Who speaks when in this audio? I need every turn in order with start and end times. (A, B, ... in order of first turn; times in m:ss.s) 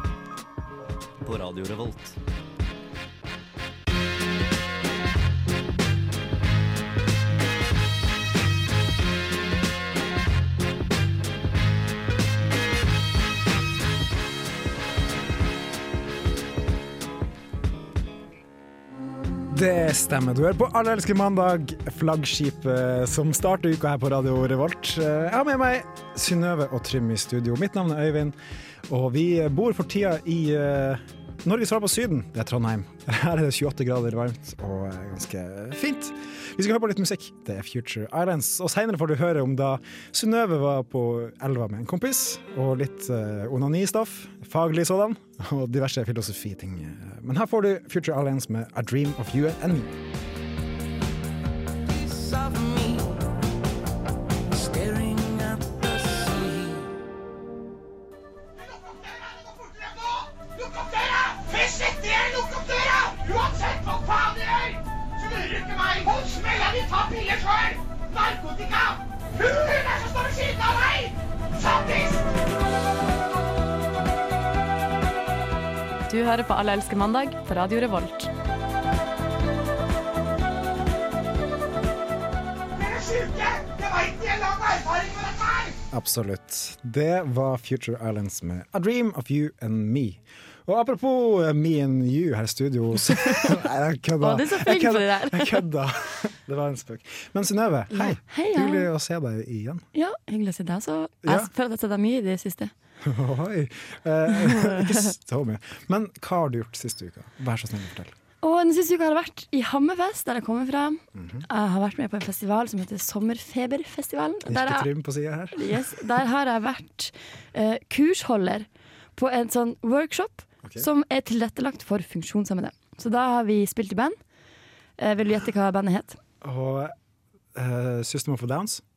0:01.2-0:02.2 A
0:19.5-0:28.3 B
0:28.9-0:49.9 B
0:51.9-0:53.3 A
0:54.5-0:56.9 A
0:58.6-1:12.2 C
1:16.1-1:18.3 D
1:22.7-1:25.8 C
1:25.9-1:39.8 B
1:33.1-1:33.5 D
1:34.2-1:35.6 D
1:37.9-1:38.9 D
1:39.9-1:42.7 D
1:41.2-1:41.5 B
1:43.0-1:48.1 B
1:44.3-1:45.0 D
1:48.4-1:54.9 D
1:51.2-1:51.4 B
1:54.4-1:55.9 B
1:55.5-2:04.2 D
2:05.0-2:06.2 D
2:06.4-2:06.9 B
2:07.5-2:08.8 B